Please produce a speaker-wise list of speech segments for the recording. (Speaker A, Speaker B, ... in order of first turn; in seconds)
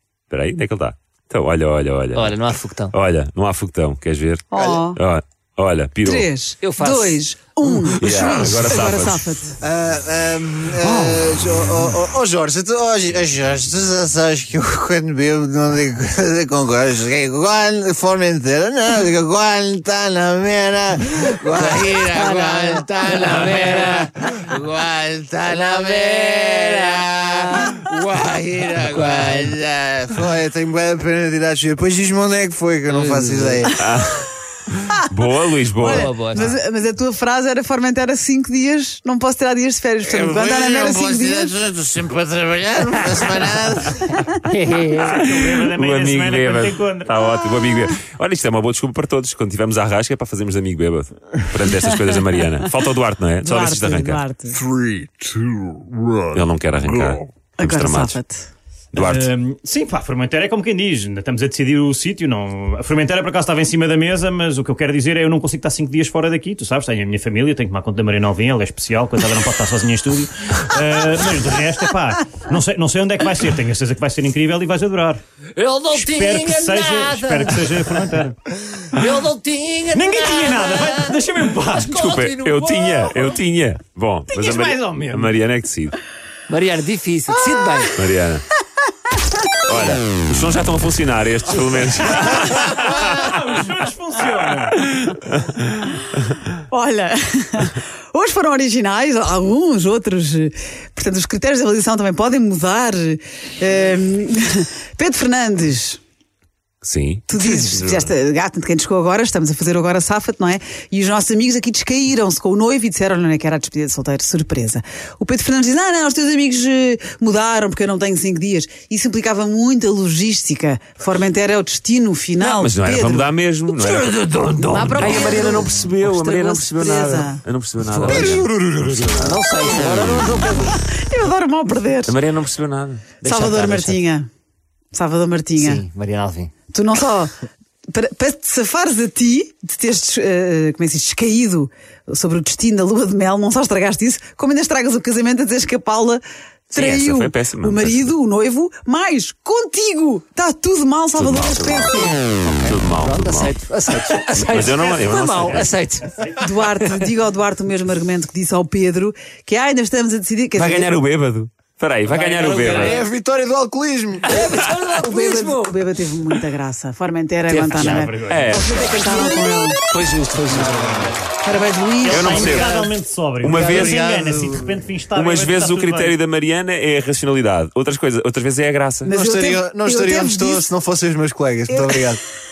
Speaker A: 0.3-2.4, 2.9-6.3, 8.0-9.3, 33.8-34.3, 35.0-36.1, 45.1-54.2, 56.3-58.2, 58.9-59.3, 81.8-85.9, 87.9-88.4, 89.6-93.3, 106.8-108.1, 122.4-124.2, 124.7-130.3, 132.1-133.2, 146.7-148.1, 151.2-153.5, 154.3-155.7, 160.5-163.0, 164.3-164.7, 168.2-168.7, 172.1-172.8, 173.4-174.0, 175.1-179.1
Speaker B: 2.1-2.9, 6.6-7.2, 23.5-24.0, 29.0-29.5, 32.9-33.7, 35.9-36.5, 44.5-45.1, 75.5-78.0, 78.9-81.2, 81.7-83.4, 86.5-88.0, 123.7-125.8, 127.8-130.8, 133.2-134.0, 135.6-136.5, 152.3-156.2, 164.3-165.8, 167.5-171.2
Speaker C: 4.5-5.0, 6.0-9.6, 35.8-41.5, 53.4-54.6, 57.6-58.5, 96.7-106.0, 107.3-123.3, 124.7-127.4, 130.7-132.2, 133.2-134.3, 134.9-135.8, 136.7-137.3, 137.9-152.2, 156.4-160.9, 165.0-169.8, 171.4-172.8, 179.0-180.7, 181.7-182.0
Speaker D: 9.6-33.7, 40.0-44.1, 54.7-56.2, 162.3-164.3, 173.6-174.7, 179.1-182.2
Speaker E: 45.0-47.2, 59.0-75.2, 75.9-78.4, 79.9-81.9, 84.3-85.3, 92.7-94.8, 162.4-162.8, 167.8-168.5, 172.0-176.2